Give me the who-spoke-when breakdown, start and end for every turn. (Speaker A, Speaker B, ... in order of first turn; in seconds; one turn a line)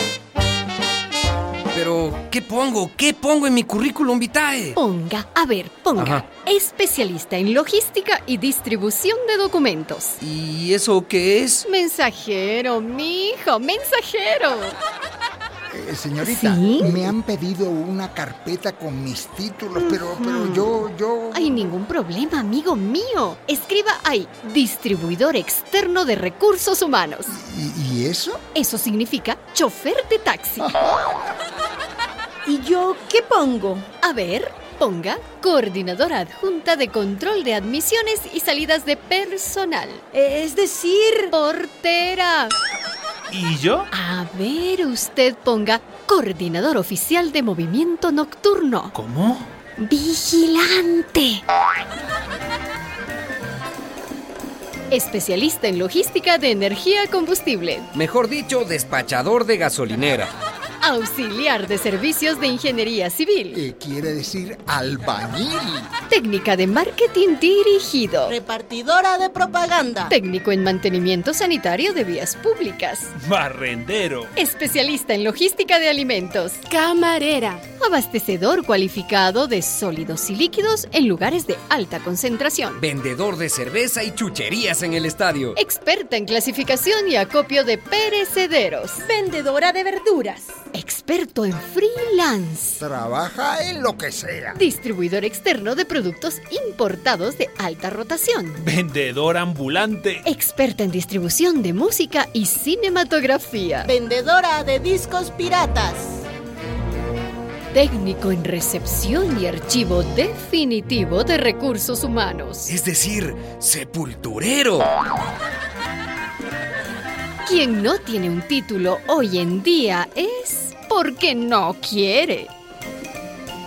Speaker A: 1.7-4.8
Speaker B: 4.8-10.2
Speaker A: 6.0-6.2
Speaker A: 10.2-11.6
Speaker B: 11.7-14.8
Speaker C: 15.7-21.7
Speaker B: 16.2-17.1
Speaker B: 19.8-27.3
Speaker C: 27.3-28.4
Speaker B: 28.6-30.7
Speaker D: 32.5-33.9
Speaker B: 34.0-40.0
Speaker D: 40.1-41.3
Speaker B: 41.3-42.5
Speaker E: 43.3-43.9
Speaker B: 43.9-49.0
Speaker E: 49.0-49.5
Speaker B: 49.8-51.4
Speaker B: 54.9-57.9
Speaker A: 57.9-60.3
Speaker B: 60.8-63.6
Speaker C: 63.5-65.9
Speaker B: 66.1-68.4
Speaker F: 68.3-70.1
Speaker B: 70.1-73.1
Speaker E: 73.2-74.3
Speaker B: 74.4-76.6
Speaker D: 76.7-77.6
Speaker B: 77.8-82.8
Speaker A: 82.8-85.6
Speaker B: 85.6-89.0
Speaker D: 89.0-90.5
Speaker B: 90.7-92.8
Speaker C: 92.8-94.6
Speaker B: 94.6-98.6
Speaker E: 98.6-100.2
Speaker B: 100.2-103.9
Speaker F: 103.8-106.2
Speaker B: 107.7-112.7
Speaker A: 112.7-114.9
Speaker B: 117.5-122.5